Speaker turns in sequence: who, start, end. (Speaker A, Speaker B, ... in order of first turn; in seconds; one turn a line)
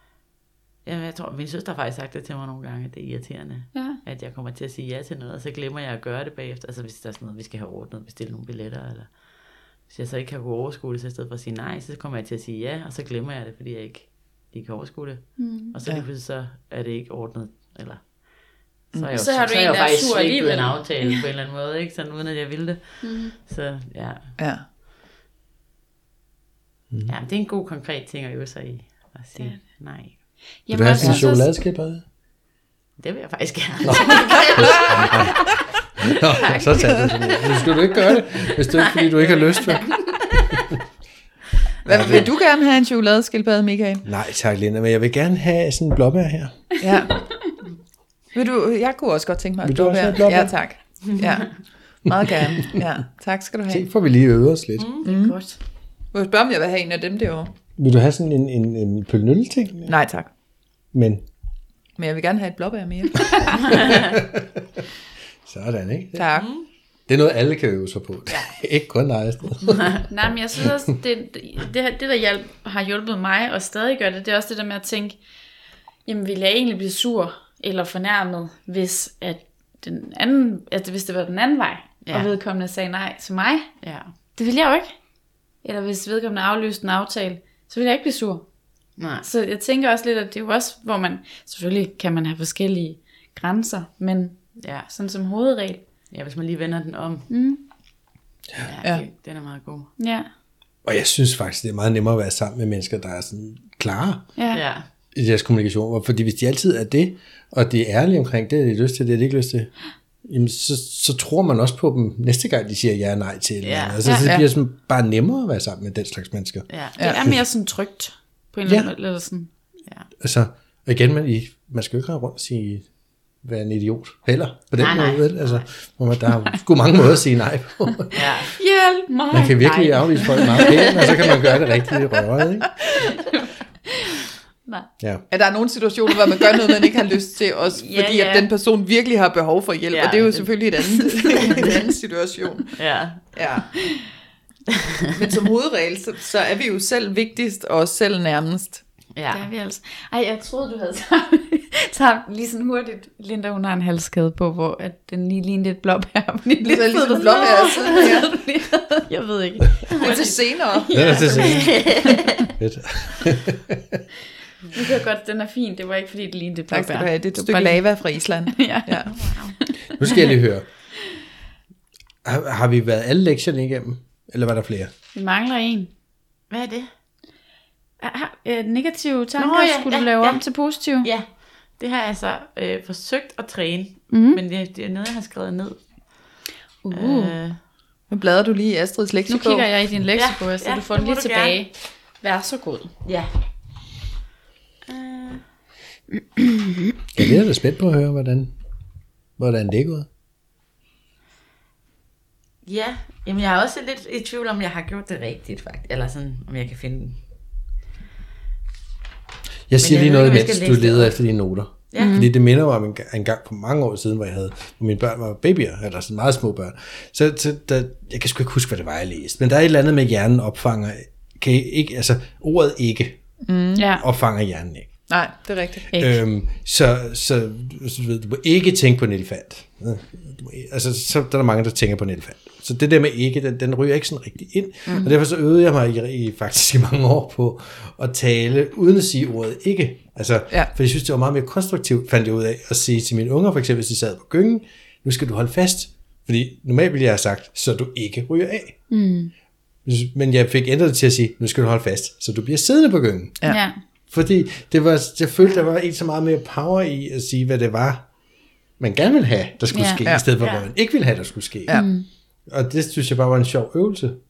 Speaker A: 0.8-24.3
Speaker B: 3.7-4.0
Speaker B: 15.4-15.7
Speaker B: 19.1-21.2
Speaker B: 23.0-23.3
Speaker C: 24.4-24.6
Speaker A: 27.1-30.3
Speaker B: 29.4-31.6
Speaker D: 30.7-32.0
Speaker A: 33.0-35.5
Speaker D: 33.8-40.3
Speaker A: 36.5-37.7
Speaker A: 38.8-40.6
Speaker C: 41.8-44.0
Speaker D: 41.9-42.3
Speaker D: 44.0-46.8
Speaker C: 46.8-47.2
Speaker C: 48.3-53.9
Speaker D: 49.6-50.5
Speaker A: 51.1-51.5
Speaker D: 53.7-54.9
Speaker A: 54.8-55.4
Speaker C: 55.0-55.4
Speaker B: 55.1-55.6
Speaker C: 56.1-57.5
Speaker D: 57.8-60.0
Speaker C: 59.9-60.3
Speaker D: 60.9-61.2
Speaker C: 62.0-63.9
Speaker A: 63.7-64.0
Speaker D: 63.9-64.4
Speaker D: 65.4-66.3
Speaker C: 66.1-66.5
Speaker A: 66.3-66.7
Speaker D: 67.1-70.0
Speaker A: 68.3-68.5
Speaker A: 69.6-70.0
Speaker B: 70.1-75.2
Speaker B: 76.0-83.7
Speaker A: 82.0-82.3
Speaker A: 83.8-84.1
Speaker B: 84.3-84.9
Speaker B: 85.6-88.5
Speaker A: 89.0-89.3
Speaker B: 89.2-95.8
Speaker A: 94.6-94.9
Speaker A: 96.1-97.3
Speaker B: 97.3-97.6
Speaker A: 98.6-99.9
Speaker B: 100.0-100.3
Speaker D: 100.8-104.3
Speaker A: 104.5-104.8
Speaker D: 105.1-116.7
Speaker A: 113.6-114.0
Speaker B: 114.0-114.3
Speaker A: 116.7-117.0
Speaker B: 117.0-119.5
Speaker D: 120.2-128.4
Speaker A: 124.8-125.7
Speaker A: 128.1-128.5
Speaker B: 128.5-131.5
Speaker D: 129.3-133.1
Speaker A: 129.6-131.0
Speaker D: 135.0-135.2
Speaker C: 135.3-142.8
Speaker B: 137.8-138.5
Speaker A: 139.9-141.7
Speaker B: 141.0-141.4
Speaker A: 142.8-143.3
Speaker C: 143.3-143.7
Speaker C: 145.2-148.8
Speaker A: 149.1-149.4
Speaker B: 149.3-161.9
Speaker C: 156.6-158.3
Speaker A: 156.9-158.0
Speaker C: 160.0-161.5
Speaker D: 160.9-164.0
Speaker A: 161.4-162.2
Speaker B: 164.7-170.2
Speaker C: 166.7-169.1
Speaker A: 169.1-169.6
Speaker D: 169.9-170.7
Speaker D: 172.2-174.9
Speaker B: 175.1-175.9
Speaker A: 176.5-176.9
Speaker B: 178.0-181.1
Speaker A: 179.4-186.4
Speaker B: 184.1-184.4
Speaker B: 186.8-187.3
Speaker A: 186.9-187.6
Speaker C: 188.1-189.7
Speaker B: 189.3-192.9
Speaker A: 190.1-191.6
Speaker A: 193.0-193.3
Speaker A: 194.8-195.4
Speaker D: 197.1-198.6
Speaker D: 199.4-200.1
Speaker A: 202.6-207.2
Speaker D: 209.7-223.4
Speaker A: 209.8-211.2
Speaker A: 211.9-212.2
Speaker B: 211.9-212.3
Speaker C: 223.4-223.8
Speaker B: 223.7-224.0
Speaker D: 224.0-225.1
Speaker C: 225.1-225.9
Speaker B: 225.9-226.2
Speaker D: 226.0-248.8
Speaker B: 248.9-249.3
Speaker D: 249.8-253.4
Speaker B: 253.4-253.8
Speaker D: 254.1-258.1
Speaker D: 258.8-261.9
Speaker B: 259.7-260.0
Speaker A: 260.4-260.7
Speaker B: 261.7-262.1
Speaker D: 262.5-264.2